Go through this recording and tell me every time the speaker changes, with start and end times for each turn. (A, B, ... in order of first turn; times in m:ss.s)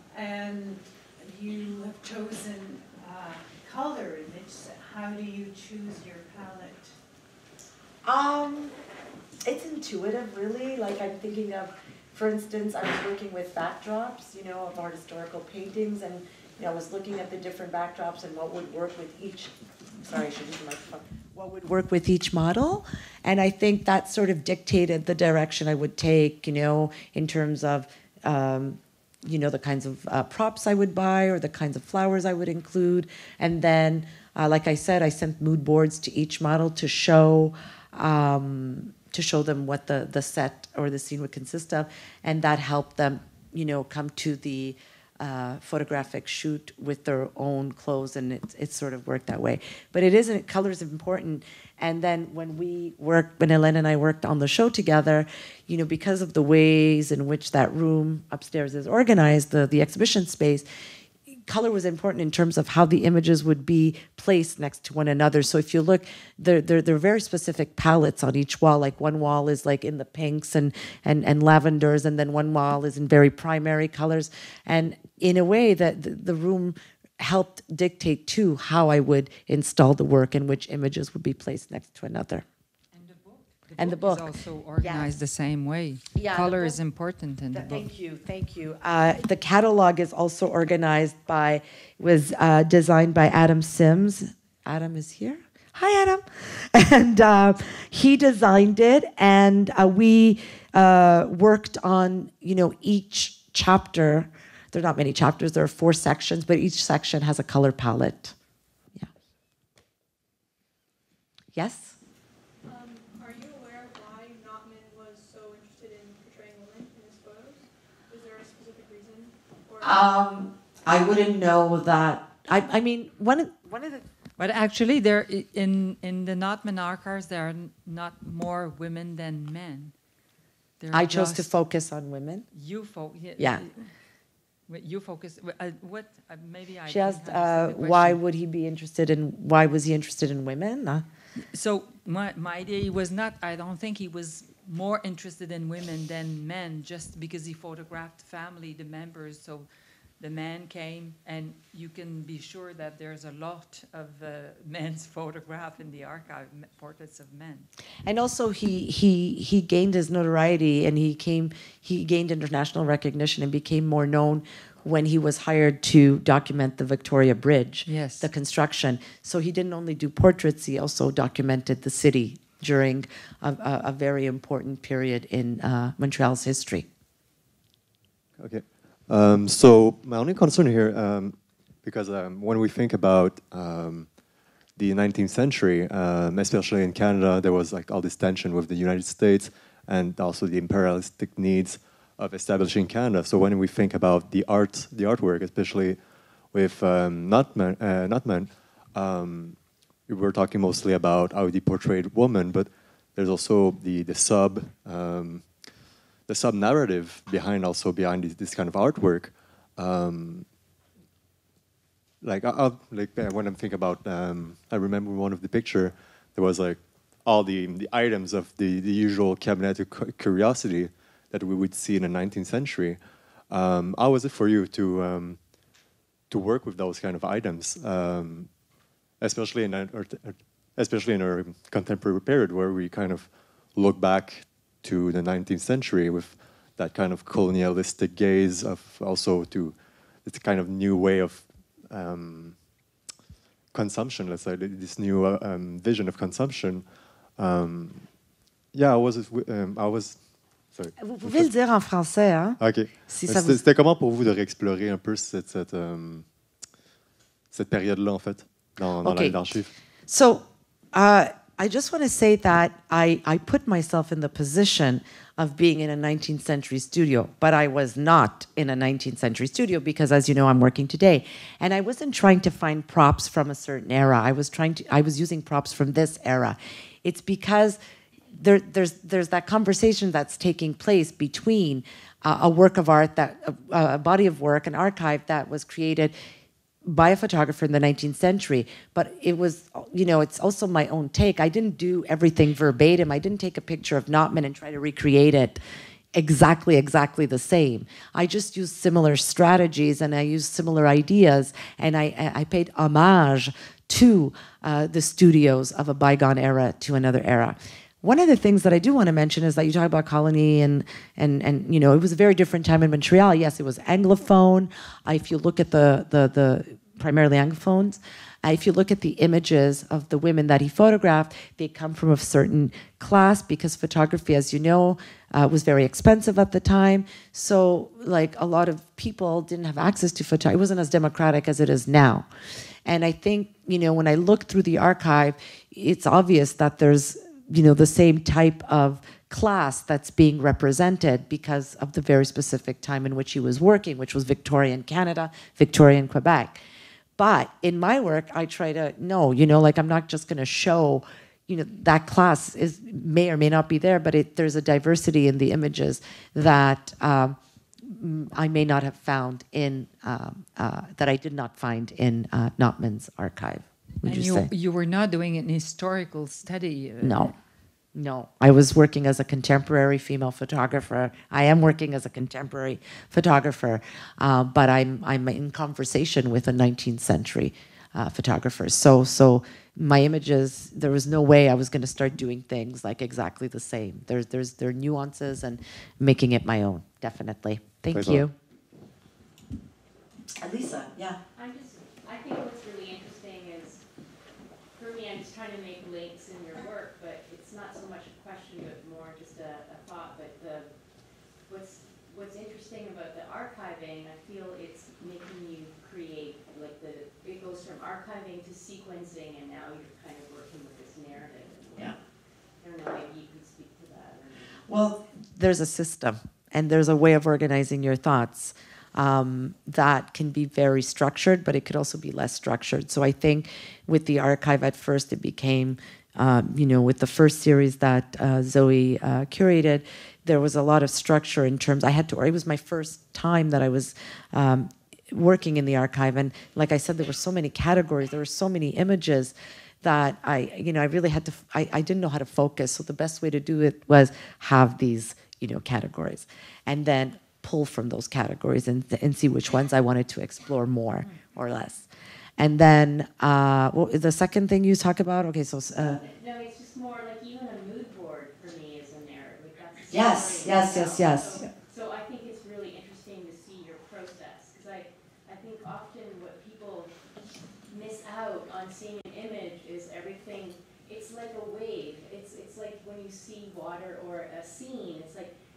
0:00.1-0:06.9 A
0:08.0-0:08.7 B
0:09.4-1:00.6 B
1:01.5-1:22.4 B
1:22.9-1:27.9 C
1:23.8-1:25.1 B
1:26.1-1:26.8 B
1:27.5-1:48.3 B
1:51.5-1:52.0 B
1:52.6-2:00.0 D
1:59.8-2:04.0 B
2:04.4-2:09.9 C
2:10.8-2:11.5 C
2:10.9-2:12.5 B
2:12.5-2:13.9 C
2:13.4-2:13.6 B
2:14.7-2:18.2 C
2:16.9-2:21.0 B
2:21.4-2:29.7 C
2:30.2-2:37.7 C
2:38.0-2:56.9 B
2:47.9-2:48.3 C
2:58.4-3:30.5 E
3:32.2-4:02.7 E
4:03.7-4:11.5 E
4:11.0-4:13.6 B
4:12.6-4:16.3 E
4:17.5-4:19.7 E
4:19.0-4:19.5 B
4:20.1-4:37.8 B
4:38.3-4:46.1 B
4:46.8-4:55.6 B
4:56.1-5:32.3 B
5:32.9-5:46.6 B
5:47.2-6:04.5 B
6:04.0-6:07.3 C
6:07.0-6:07.3 B
6:07.9-6:28.3 B
6:27.9-6:28.2 E
6:30.4-6:31.2 B
6:31.4-6:33.8 F
6:34.8-6:40.7 F
6:41.5-6:52.0 F
6:52.6-6:54.6 F
6:54.7-7:36.0 B
7:35.8-7:55.3 F
7:39.9-7:41.5 B